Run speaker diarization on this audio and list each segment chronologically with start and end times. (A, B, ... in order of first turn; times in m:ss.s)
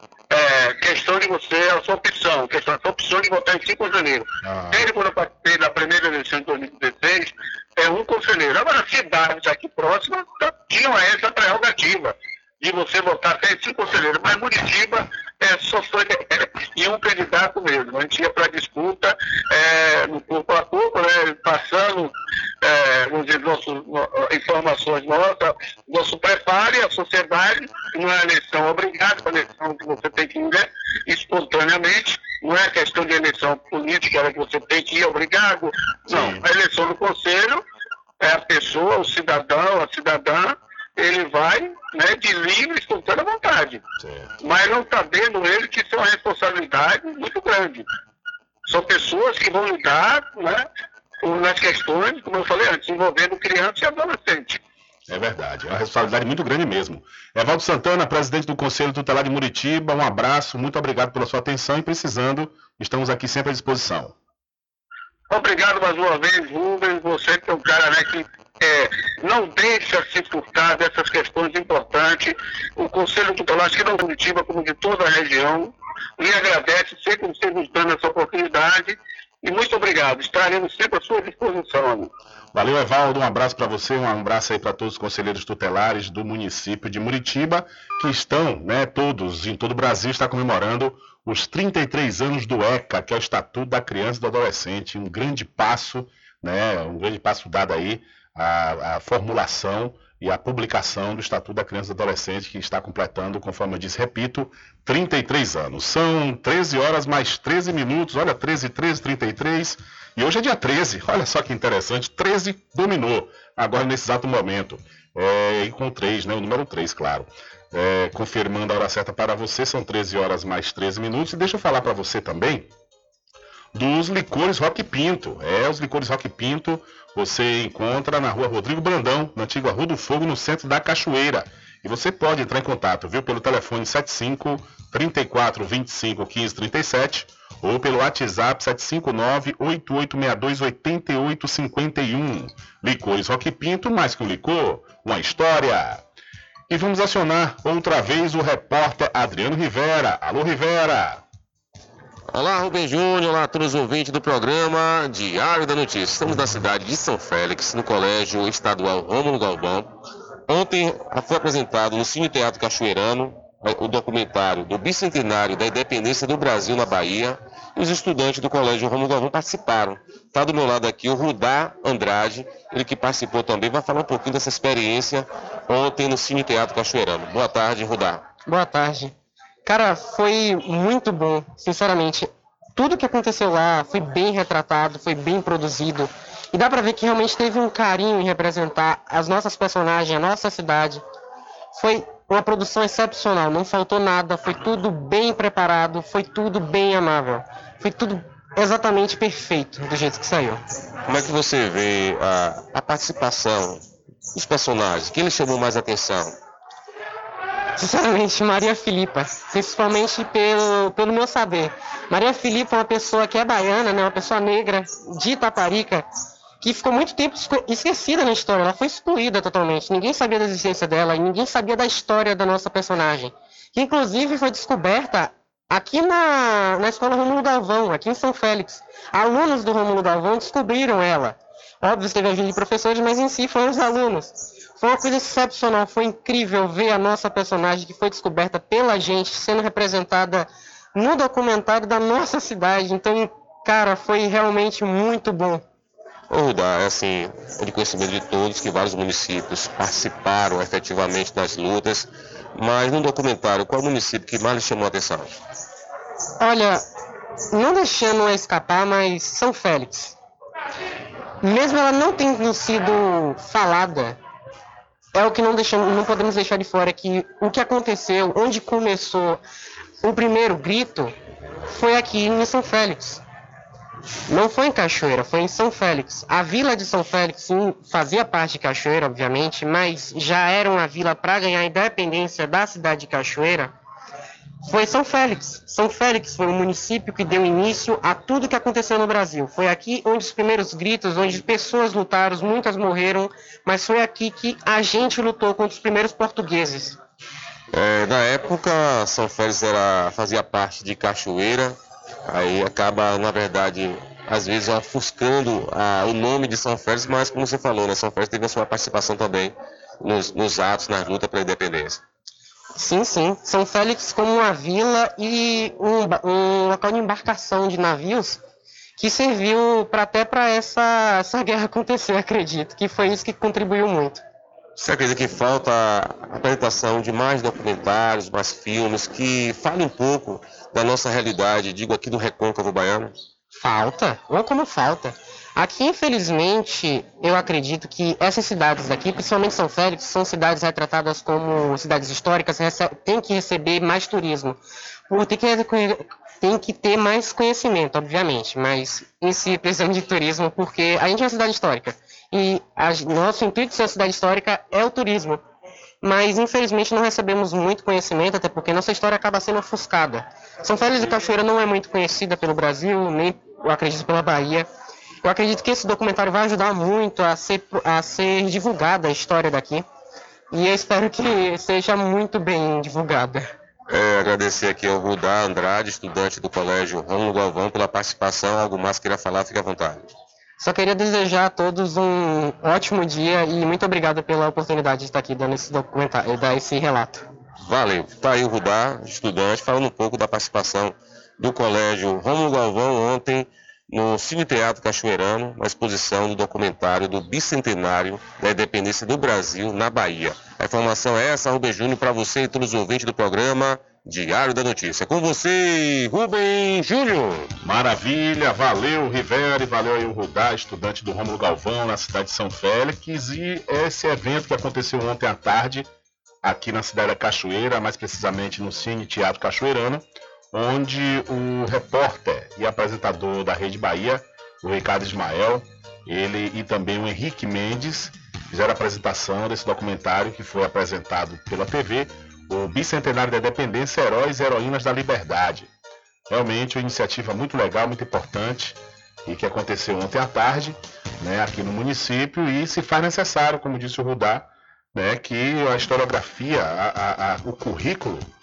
0:00.3-0:37.6 A
0:04.4-0:04.8 B
0:36.1-0:36.4 B
0:38.2-0:43.8 A
0:44.0-0:44.3 B
0:44.4-0:47.8 A
0:48.7-0:50.6 A
0:51.2-0:54.6 A
0:55.1-1:04.2 B
1:05.3-1:22.1 A
1:22.5-2:02.7 B
2:03.7-2:26.0 B
2:26.7-2:31.2 B
2:32.3-2:39.9 C
2:40.5-2:58.2 C
2:58.5-2:59.1 D
2:59.6-3:11.0 D
3:11.7-3:20.6 D
3:21.0-3:23.8 C
3:24.3-3:26.3 C
3:27.8-3:36.1 D
3:36.6-4:05.6 D
4:06.3-4:15.3 C
4:16.4-4:16.8 D
4:17.5-4:20.2 D
4:21.4-4:24.2 D
4:25.1-4:29.4 D
4:30.0-4:31.1 D
4:31.7-4:33.2 D
4:34.3-4:43.7 D
4:44.6-4:57.0 D
4:57.7-5:01.8 C
5:02.3-5:12.0 C
5:12.8-5:18.4 D
5:19.0-5:24.2 D
5:24.8-5:33.1 C
5:33.5-5:55.4 D
5:56.0-6:04.7 D
6:05.2-6:09.9 D
6:10.5-6:13.5 D
6:13.9-6:20.0 C
6:20.6-6:27.2 D
6:27.6-6:47.5 C
6:47.6-6:55.9 B
6:56.4-7:15.7 B
7:16.3-7:28.3 B